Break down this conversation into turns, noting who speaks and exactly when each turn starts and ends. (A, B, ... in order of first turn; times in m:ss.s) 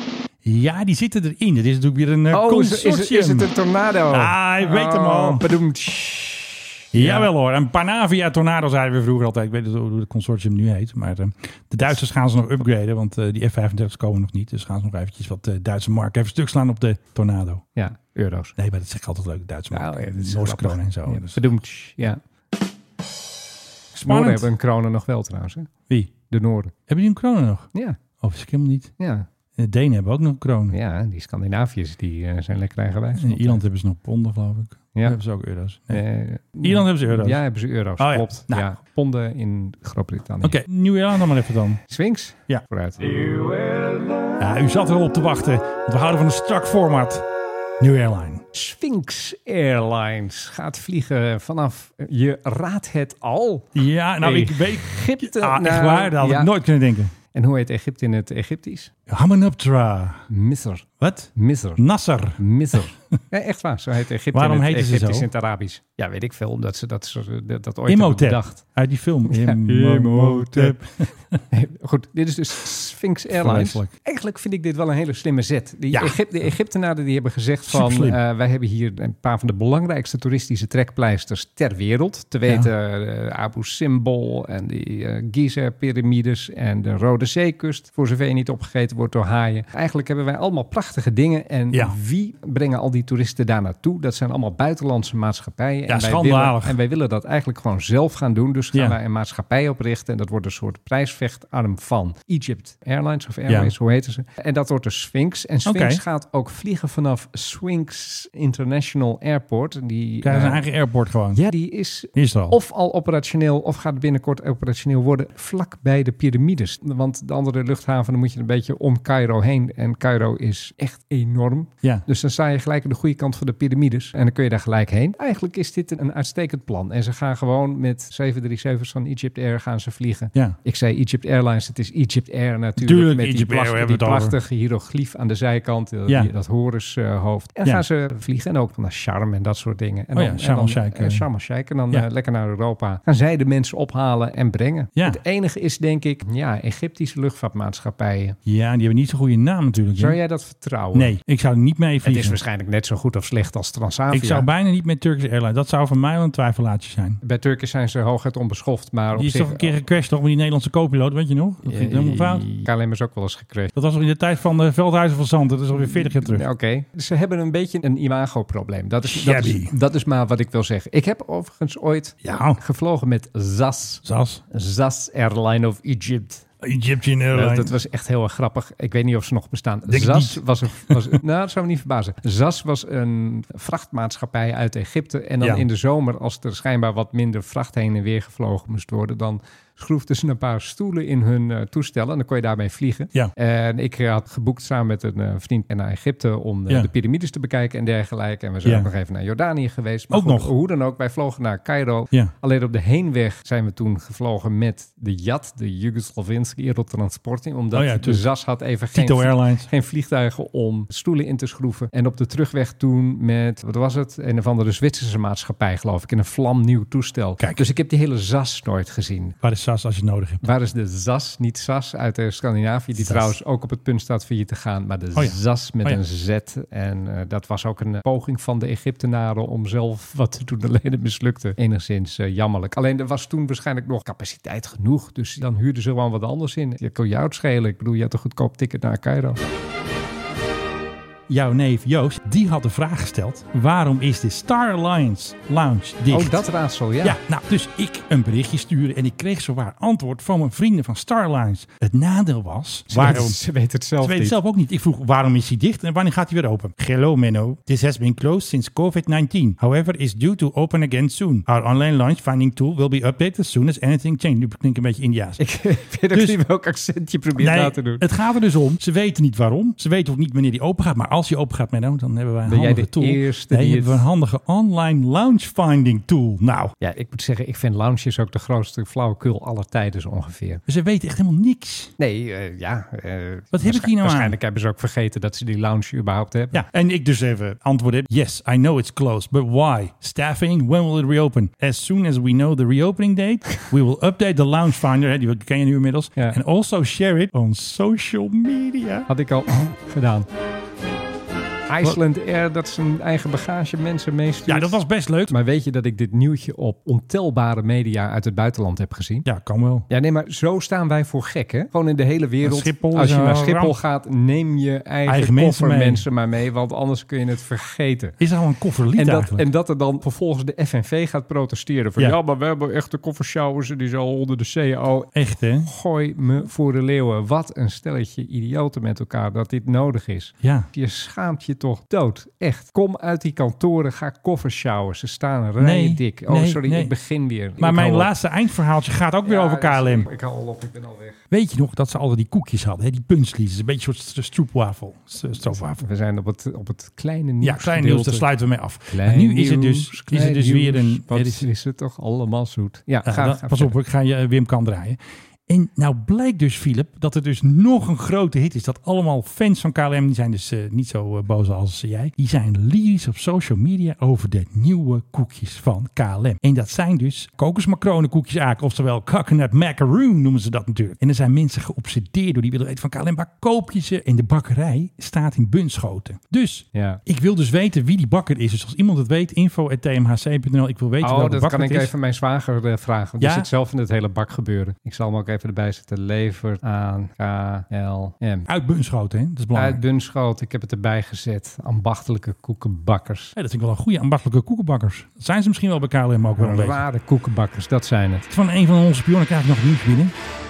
0:00.4-0:03.5 A
0:02.3-0:07.3 B
0:04.1-0:05.4 A
0:06.9-0:17.6 A
0:17.8-0:18.5 B
0:18.6-0:21.4 A
0:19.7-0:22.2 B
0:23.9-0:25.7 B
0:24.0-0:24.5 A
0:25.9-0:26.1 A
0:26.3-0:26.7 B
0:26.9-0:27.7 A
0:27.7-0:28.0 B
0:28.2-0:28.9 A
0:29.0-0:29.3 B
0:29.6-0:30.8 A
0:30.7-0:33.6 B
0:33.2-0:36.0 A
0:35.9-0:40.6 B
0:36.6-0:37.4 A
0:38.0-0:38.7 A
0:40.4-0:41.8 A
0:41.9-0:43.3 B
0:44.4-0:47.2 A
0:47.8-0:48.4 A
0:48.5-0:56.5 B
0:53.7-0:57.1 A
0:57.3-0:58.9 B
0:59.1-1:00.2 A
1:00.3-1:01.8 B
1:01.0-1:02.4 A
1:02.4-1:08.6 B
1:04.3-1:05.3 A
1:07.9-1:11.4 A
1:09.3-1:10.8 B
1:11.5-1:50.6 B
1:13.3-1:13.9 A
1:15.9-1:16.2 A
1:17.7-1:18.2 A
1:35.9-1:36.8 A
1:43.5-1:43.7 A
1:45.6-1:46.0 A
1:50.2-1:51.4 A
1:51.3-2:28.4 B
1:52.1-1:52.6 A
2:12.8-2:14.4 A
2:20.1-2:21.3 A
2:28.4-2:30.2 A
2:30.0-2:31.1 B
2:30.9-2:32.4 A
2:32.0-2:34.5 B
2:34.1-2:37.2 A
2:37.2-2:39.7 B
2:39.1-2:42.5 A
2:41.6-2:43.7 B
2:43.7-2:46.4 A
2:45.8-2:56.4 B
2:49.0-2:49.7 A
2:52.2-2:52.6 A
2:54.0-2:54.4 A
2:56.6-2:57.7 A
2:57.3-3:39.3 B
2:59.9-3:01.1 A
3:05.4-3:05.7 A
3:20.1-3:20.5 A
3:27.7-3:28.3 A
3:28.9-3:29.7 A
3:37.4-3:37.7 A
3:39.4-3:40.5 A
3:40.4-3:59.4 B
3:43.0-3:43.3 A
3:45.1-3:46.0 A
4:01.3-4:06.4 A
4:06.1-4:07.2 B
4:07.0-4:13.4 A
4:12.9-4:14.4 B
4:14.0-4:25.4 A
4:25.4-4:28.0 B
4:26.1-4:26.4 A
4:27.4-4:36.7 A
4:32.4-4:34.0 B
4:36.8-4:40.6 B
4:40.6-4:41.9 A
4:42.0-4:46.6 B
4:43.5-4:44.4 A
4:46.5-4:59.1 A
4:59.1-5:00.3 B
5:01.7-5:09.2 B
5:04.4-5:05.4 A
5:09.2-5:09.9 A
5:09.9-5:18.2 B
5:12.4-5:13.8 A
5:15.0-5:16.0 A
5:18.2-5:19.4 A
5:18.9-5:38.1 B
5:25.1-5:25.7 A
5:30.4-5:30.7 A
5:35.6-5:36.9 A
5:37.6-5:40.1 A
5:39.2-5:41.2 B
5:41.3-5:45.8 A
5:45.5-5:48.3 B
5:47.4-5:51.4 A
5:48.9-5:53.7 B
5:53.0-6:21.9 A
6:16.7-6:17.0 B
6:21.0-6:28.5 B
6:23.2-6:23.5 A
6:28.5-6:29.8 A
6:29.5-6:33.3 B
6:33.4-6:36.8 A
6:36.4-6:38.2 B
6:38.3-6:40.1 A